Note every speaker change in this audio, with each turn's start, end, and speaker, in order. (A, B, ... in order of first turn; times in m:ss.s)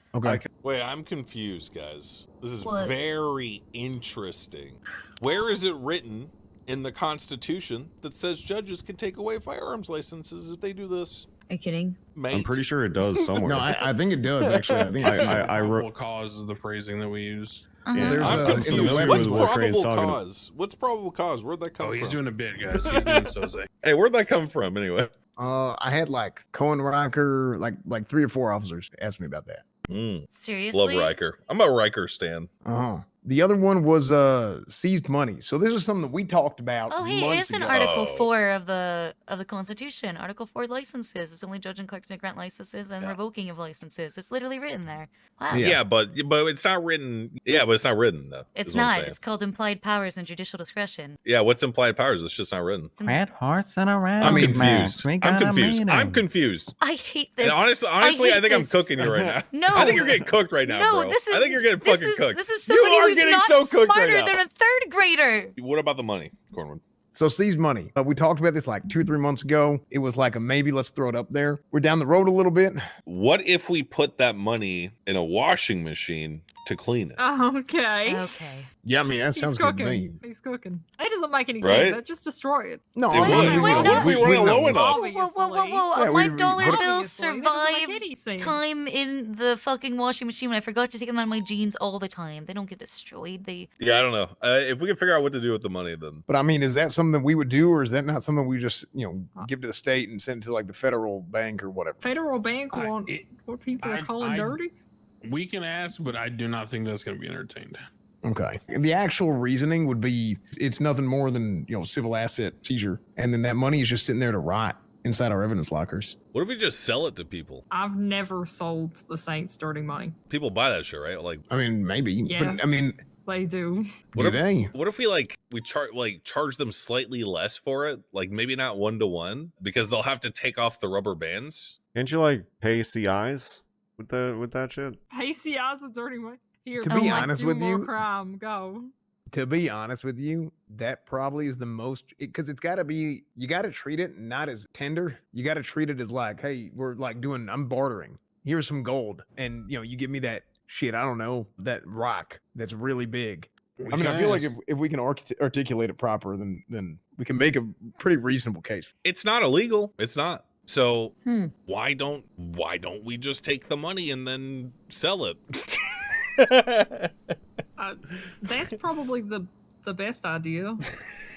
0:00.1-0:00.4 A
0:00.6-0:11.3 B
0:02.6-0:02.9 C
0:11.5-0:12.0 C
0:12.2-0:12.6 B
0:12.3-0:13.7 D
0:13.2-0:13.6 B
0:13.4-0:15.2 A
0:14.4-0:15.5 B
0:15.0-0:15.8 D
0:15.0-0:19.5 E
0:17.9-0:18.4 C
0:17.9-0:20.2 D
0:18.0-0:19.3 A
0:18.4-0:23.1 B
0:21.8-0:23.7 E
0:23.8-0:25.1 B
0:25.4-0:29.6 A
0:29.9-0:32.5 B
0:30.3-0:31.2 C
0:32.6-0:38.0 A
0:36.9-0:45.7 C
0:37.7-0:38.3 B
0:45.5-0:45.8 A
0:45.6-0:49.2 B
0:48.6-0:51.2 C
0:51.2-0:53.0 B
0:53.0-0:53.2 C
0:53.0-0:56.3 F
0:54.2-0:56.7 B
0:54.2-0:55.0 A
0:56.8-0:58.9 C
0:57.4-1:04.4 B
0:59.5-1:00.1 C
1:00.6-1:05.5 C
1:05.6-1:06.8 B
1:07.1-1:12.8 A
1:13.1-1:17.2 B
1:17.2-1:18.3 G
1:18.1-1:18.7 C
1:18.8-1:20.2 A
1:19.3-1:25.9 G
1:21.6-1:22.0 B
1:22.9-1:24.8 A
1:23.1-1:25.0 B
1:23.1-1:33.7 C
1:25.9-1:26.8 A
1:26.6-1:28.7 G
1:33.8-1:36.2 B
1:36.3-1:42.0 A
1:42.0-1:44.7 G
1:42.7-1:43.3 E
1:43.8-1:44.6 E
1:45.2-1:47.8 E
1:48.2-1:56.2 A
1:56.3-1:57.6 B
1:57.7-2:00.2 G
2:00.3-2:01.5 B
2:01.5-2:03.0 A
2:02.3-2:03.9 G
2:04.1-2:04.7 A
2:04.2-2:11.8 B
2:12.0-2:15.0 D
2:15.1-2:18.9 G
2:16.8-2:17.9 A
2:16.9-2:17.3 C
2:19.3-2:38.9 A
2:33.8-2:34.5 E
2:39.0-2:45.4 B
2:41.2-2:41.5 C
2:46.4-2:47.0 B
2:47.8-2:50.8 G